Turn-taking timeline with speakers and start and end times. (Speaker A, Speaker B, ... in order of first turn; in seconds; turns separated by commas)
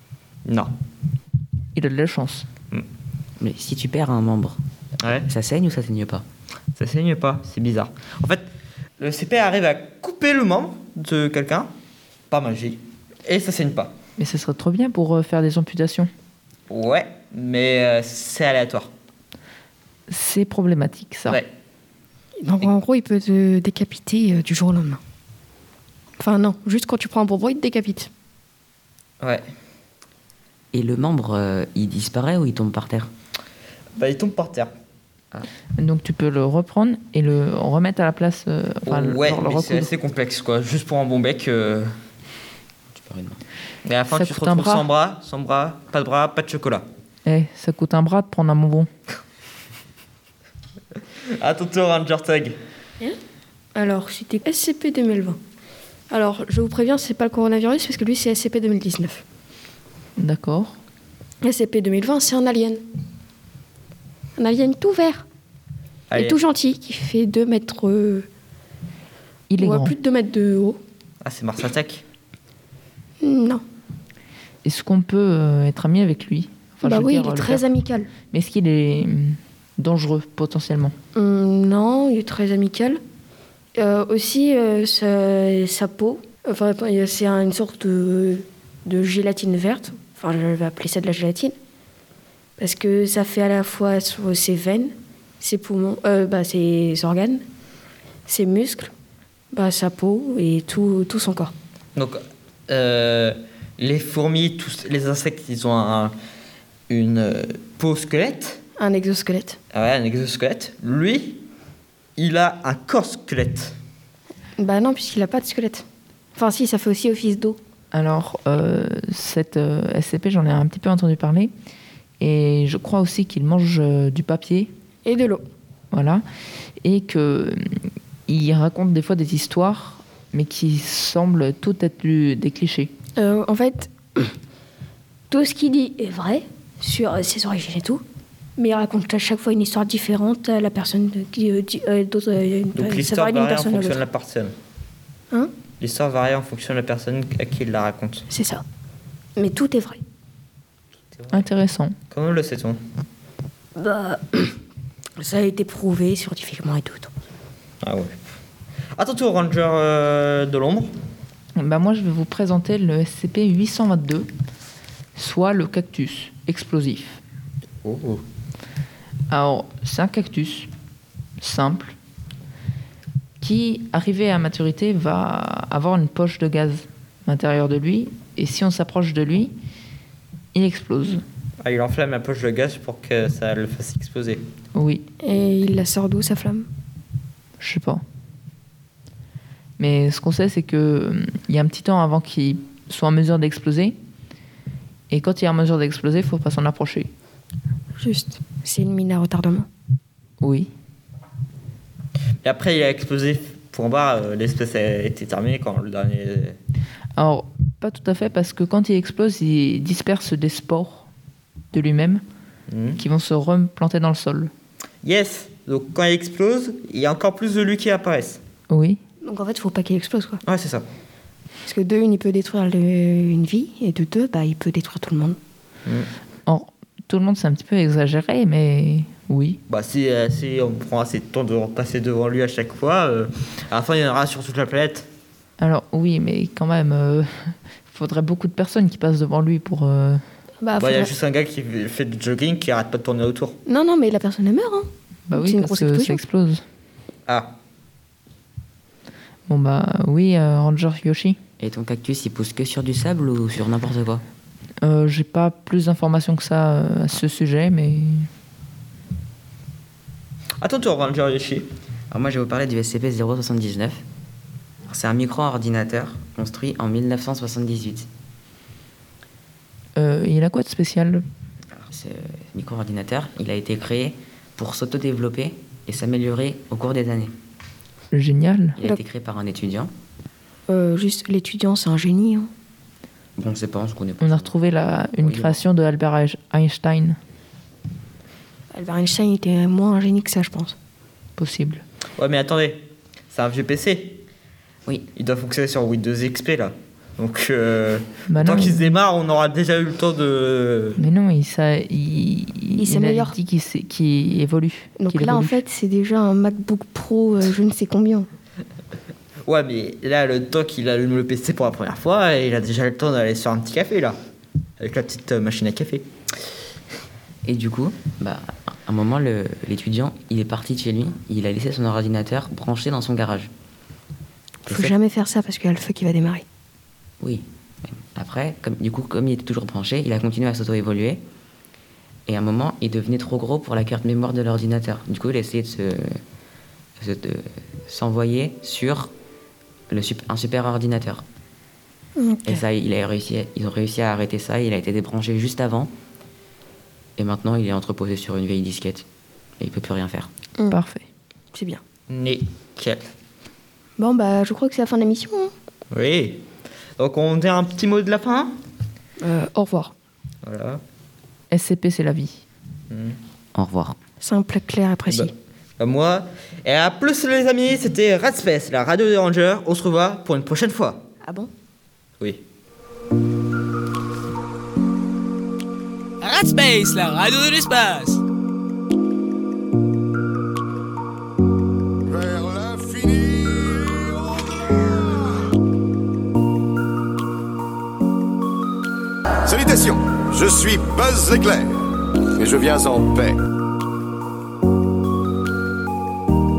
Speaker A: 0.4-0.7, Speaker B: 1.7-2.5, Speaker C: 3.4-4.6, Speaker A: 5.0-5.3, Speaker C: 5.2-6.2, Speaker A: 6.8-8.5, Speaker A: 9.0-11.7, Speaker A: 12.3-13.9, Speaker B: 14.2-16.1, Speaker A: 16.7-18.9, Speaker B: 20.1-21.4, Speaker D: 22.4-25.0, Speaker D: 26.2-28.1, Speaker C: 30.7-33.1, Speaker A: 34.0-34.7, Speaker B: 35.8-39.9, Speaker A: 38.9-41.9, Speaker C: 42.9-43.4, Speaker A: 43.8-46.8, Speaker B: 44.1-44.9, Speaker B: 47.2-48.9, Speaker A: 51.4-52.6, Speaker D: 53.7-55.4, Speaker D: 56.1-59.2, Speaker B: 60.2-60.8, Speaker D: 61.4-62.8, Speaker D: 64.3-65.2, Speaker A: 66.1-66.4, Speaker D: 66.1-68.3, Speaker B: 69.5-69.9, Speaker D: 69.6-70.8, Speaker A: 71.2-72.0, Speaker D: 73.2-73.6, Speaker B: 74.6-77.6, Speaker D: 76.8-78.1, Speaker B: 78.3-80.9, Speaker D: 81.1-83.0, Speaker D: 83.7-91.5, Speaker D: 92.6-97.4, Speaker D: 98.2-98.9, Speaker D: 99.5-101.5, Speaker A: 102.0-106.1, Speaker A: 106.9-108.6, Speaker D: 108.8-109.6, Speaker A: 109.7-111.4, Speaker A: 112.2-113.8, Speaker D: 114.6-117.6, Speaker B: 117.9-121.5, Speaker B: 122.2-124.7, Speaker D: 125.0-125.4, Speaker B: 125.9-126.2, Speaker B: 126.8-132.9, Speaker D: 133.2-134.3, Speaker D: 135.3-138.0, Speaker D: 138.6-144.0, Speaker A: 142.7-144.5, Speaker A: 145.8-148.2, Speaker D: 148.3-148.6, Speaker D: 149.3-150.0, Speaker A: 151.2-151.4, Speaker B: 151.3-151.9, Speaker A: 152.1-152.8, Speaker D: 153.8-154.6, Speaker D: 155.2-157.1, Speaker A: 157.8-158.1, Speaker A: 159.0-160.9, Speaker B: 161.5-164.3, Speaker B: 165.1-167.2, Speaker A: 167.8-168.2, Speaker B: 169.3-170.7, Speaker B: 171.4-171.9, Speaker B: 173.4-179.5, Speaker B: 180.5-181.2, Speaker A: 181.6-184.4, Speaker B: 184.7-185.0, Speaker D: 185.2-186.7, Speaker B: 187.6-188.0, Speaker B: 189.8-193.9, Speaker B: 195.1-197.1, Speaker D: 198.0-199.7, Speaker B: 200.4-200.7, Speaker A: 202.4-206.6, Speaker B: 207.2-211.1, Speaker B: 211.7-212.2, Speaker A: 212.7-213.0, Speaker B: 213.0-214.5, Speaker A: 215.0-218.4, Speaker B: 218.7-219.0, Speaker D: 219.2-220.4, Speaker A: 220.4-220.8, Speaker D: 221.6-225.4, Speaker B: 226.4-229.6, Speaker A: 229.7-235.1, Speaker B: 235.6-240.2, Speaker D: 240.6-241.1, Speaker A: 240.8-243.6, Speaker D: 243.7-246.2, Speaker B: 245.3-246.6, Speaker A: 247.3-247.5, Speaker B: 249.5-251.4, Speaker C: 251.6-254.2, Speaker B: 254.8-258.3, Speaker A: 260.6-261.7, Speaker C: 262.1-264.0, Speaker C: 264.9-268.1, Speaker B: 269.9-271.2, Speaker C: 271.7-277.3, Speaker B: 278.1-278.8, Speaker C: 278.8-279.9, Speaker D: 280.7-282.5, Speaker C: 283.4-284.6, Speaker B: 284.2-287.2, Speaker C: 285.2-285.6, Speaker D: 288.7-290.8, Speaker B: 291.4-291.8, Speaker A: 292.2-294.2, Speaker A: 295.1-301.1, Speaker B: 298.3-298.9, Speaker B: 301.0-305.6, Speaker D: 302.8-303.4, Speaker D: 305.0-308.3, Speaker A: 309.4-314.2, Speaker A: 314.8-316.1, Speaker C: 317.4-323.5, Speaker D: 324.6-326.4, Speaker C: 324.7-324.9, Speaker C: 327.2-331.2, Speaker C: 332.3-336.2, Speaker C: 337.0-339.1, Speaker C: 339.9-341.2, Speaker D: 342.1-342.6, Speaker C: 342.4-345.9, Speaker C: 347.2-349.1, Speaker C: 349.6-350.3, Speaker B: 350.7-351.0, Speaker D: 351.5-351.8, Speaker A: 352.1-353.1, Speaker D: 354.0-355.5, Speaker A: 355.9-356.4, Speaker A: 357.0-358.5, Speaker D: 359.2-359.9, Speaker A: 360.4-360.8, Speaker B: 361.5-362.4, Speaker A: 362.9-363.2, Speaker C: 363.5-364.0, Speaker D: 364.2-365.3, Speaker A: 365.1-371.0, Speaker D: 371.2-371.5, Speaker E: 376.2-378.2, Speaker F: 382.1-384.3, Speaker F: 389.4-391.8, Speaker F: 392.4-393.4